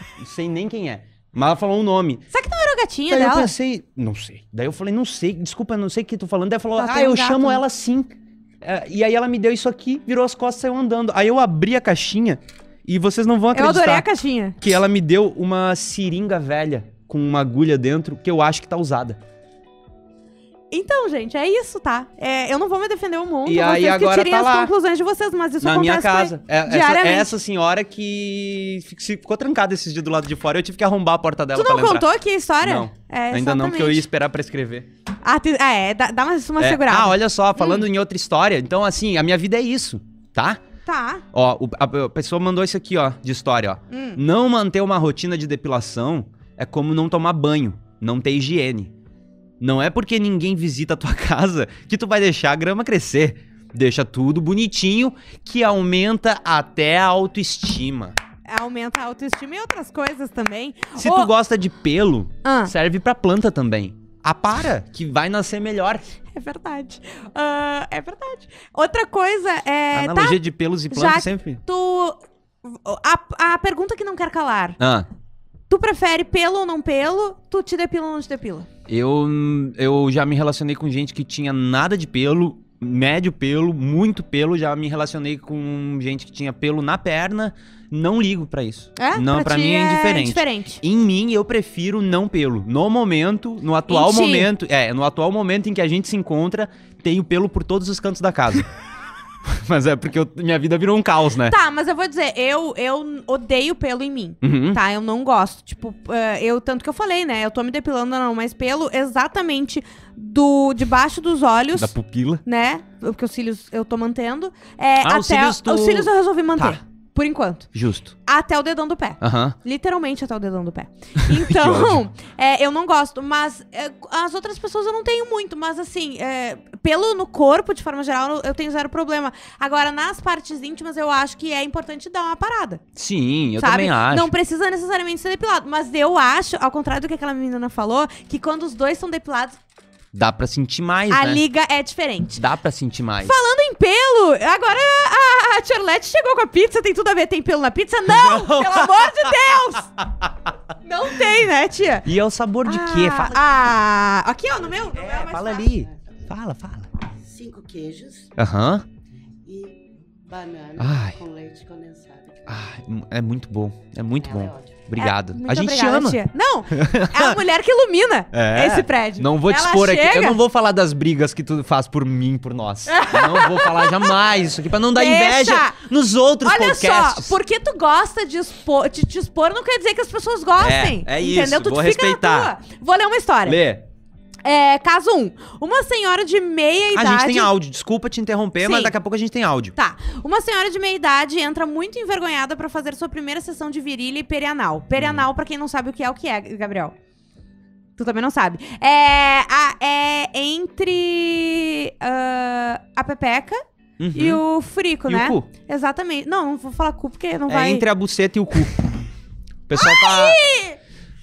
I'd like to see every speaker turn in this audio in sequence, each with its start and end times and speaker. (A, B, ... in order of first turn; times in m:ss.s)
0:00.2-0:02.2 A
0:02.3-0:03.5 B
0:03.1-0:08.1 A
0:06.8-0:07.6 B
0:08.6-0:14.1 A
0:13.5-0:14.6 B
0:14.6-0:19.2 A
0:20.7-0:27.4 B
0:23.5-0:24.7 A
0:25.6-0:32.1 A
0:31.6-0:34.0 B
0:32.6-0:34.9 A
0:35.2-0:37.8 B
0:36.6-0:40.6 A
0:40.9-0:41.2 B
0:41.3-0:48.9 A
0:43.9-0:44.2 B
0:49.6-0:58.2 A
0:58.5-1:01.3 B
1:01.0-1:06.0 A
1:02.4-1:02.7 B
1:06.3-1:14.8 B
1:09.9-1:11.6 A
1:14.8-1:15.1 A
1:15.7-1:18.7 B
1:18.9-1:38.7 A
1:29.0-1:30.8 B
1:33.9-1:34.5 B
1:39.4-1:41.6 A
1:41.5-1:51.9 B
1:44.4-1:44.8 A
1:51.8-1:52.4 A
1:52.4-1:57.7 B
1:55.0-1:56.8 A
1:57.7-1:58.2 A
1:58.2-2:12.8 B
1:59.2-1:59.6 A
2:01.3-2:02.0 A
2:13.0-2:14.3 A
2:13.6-2:19.6 B
2:20.1-2:21.4 A
2:21.1-2:22.4 B
2:22.4-2:23.3 A
2:23.2-2:29.9 B
2:28.1-2:29.4 A
2:30.0-2:30.3 A
2:30.8-2:32.1 B
2:32.0-2:33.4 A
2:32.6-2:35.7 B
2:34.6-2:36.2 C
2:35.0-2:36.9 A
2:37.0-2:38.4 C
2:38.4-2:38.8 A
2:39.4-2:42.6 C
2:40.8-2:41.2 A
2:42.5-2:47.4 A
2:44.2-2:44.8 C
2:45.0-2:50.4 B
2:48.3-2:57.4 A
2:52.9-2:54.1 B
2:55.0-2:55.8 B
2:56.4-3:03.6 B
3:00.6-3:02.5 A
3:03.5-3:03.8 A
3:04.4-3:07.5 B
3:06.9-3:09.8 A
3:08.6-3:08.9 B
3:09.8-3:17.0 B
3:15.0-3:15.2 A
3:18.0-3:23.6 B
3:24.0-3:24.4 A
3:24.1-3:27.8 B
3:25.1-3:25.5 A
3:27.5-3:28.8 A
3:29.7-3:30.4 A
3:29.8-3:30.8 B